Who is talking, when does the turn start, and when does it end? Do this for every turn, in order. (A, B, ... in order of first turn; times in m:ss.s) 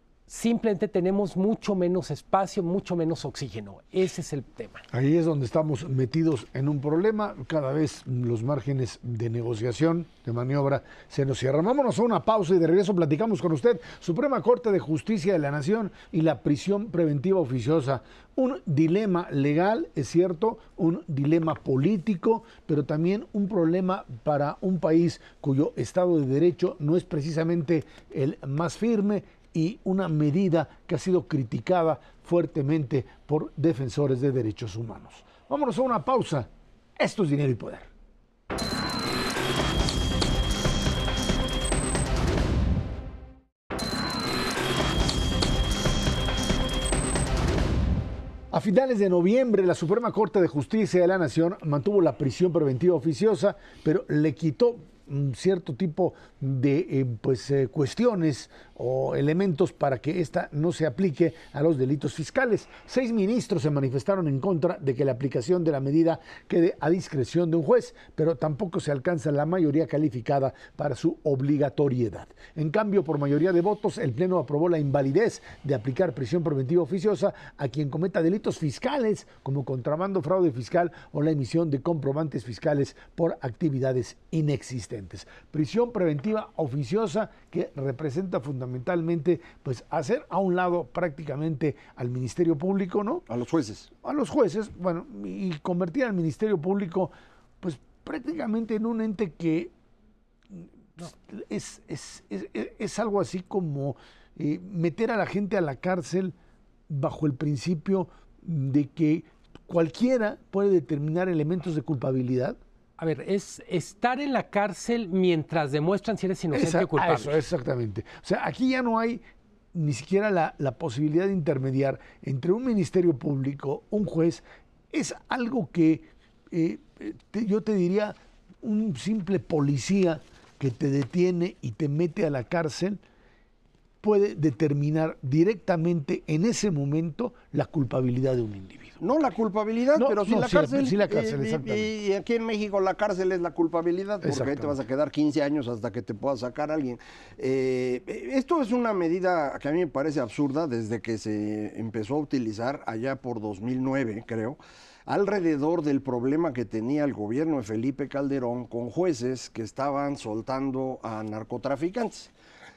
0:00.3-0:04.8 A
0:04.9-0:37.9 B
0:48.5-1:33.2 B
1:33.3-1:33.9 C
1:34.0-1:39.7 B
1:40.5-1:46.3 B
1:46.9-1:52.6 B
1:53.0-1:57.4 A
1:56.5-2:13.0 B
2:14.0-2:19.0 B
2:19.0-2:42.3 C
2:20.0-2:21.9 B
2:24.2-2:24.8 B